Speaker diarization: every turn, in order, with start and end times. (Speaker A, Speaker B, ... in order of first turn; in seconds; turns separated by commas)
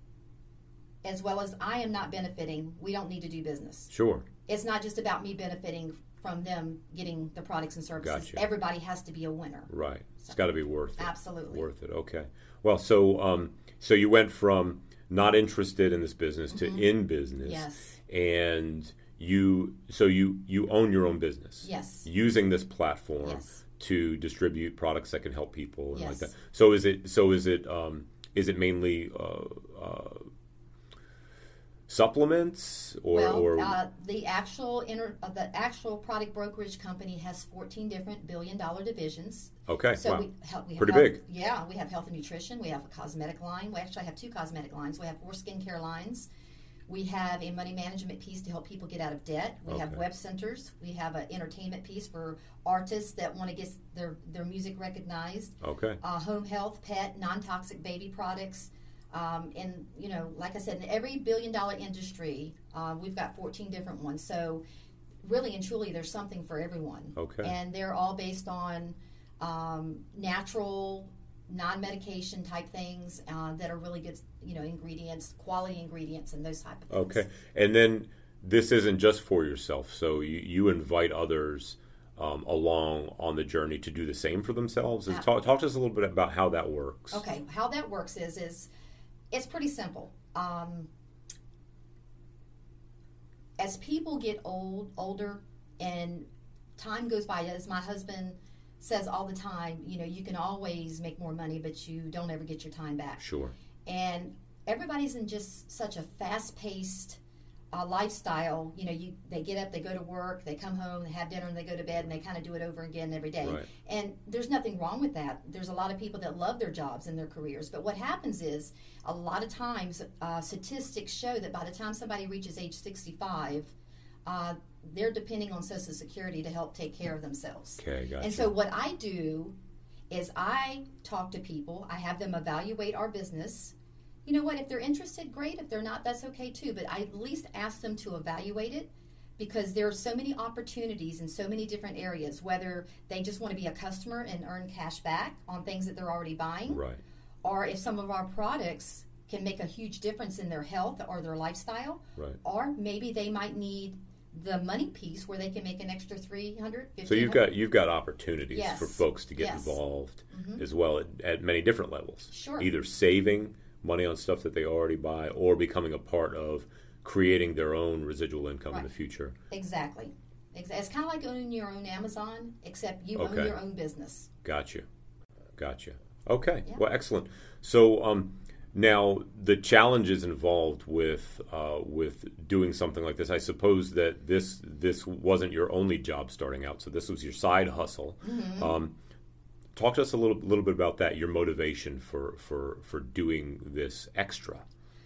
Speaker A: 1.0-3.9, Speaker B: 3.9-4.2, Speaker A: 4.5-9.7, Speaker B: 8.0-8.4, Speaker B: 9.7-30.3, Speaker A: 11.0-11.7, Speaker A: 16.5-17.9, Speaker A: 21.6-22.1, Speaker A: 23.2-23.6, Speaker A: 25.9-26.3, Speaker B: 31.9-33.8, Speaker A: 33.1-46.3, Speaker B: 39.7-40.2, Speaker B: 40.8-41.2, Speaker A: 46.9-64.6, Speaker B: 49.7-50.0, Speaker B: 55.6-56.0, Speaker A: 65.2-77.2, Speaker B: 67.2-67.5, Speaker B: 76.9-87.2, Speaker A: 87.1-88.7, Speaker A: 89.3-90.9, Speaker A: 93.6-103.2, Speaker B: 103.2-103.5, Speaker A: 103.9-107.2, Speaker A: 107.7-123.7, Speaker B: 113.4-113.7, Speaker A: 124.3-129.6, Speaker B: 127.8-128.5, Speaker A: 130.1-146.8, Speaker B: 146.7-147.0, Speaker A: 147.4-157.5, Speaker B: 157.1-169.3, Speaker A: 158.5-159.8, Speaker A: 160.3-160.6, Speaker A: 162.3-162.7, Speaker A: 169.5-174.3, Speaker B: 173.1-173.6, Speaker B: 174.4-174.8, Speaker B: 175.6-188.9, Speaker A: 188.2-188.8, Speaker B: 189.8-194.6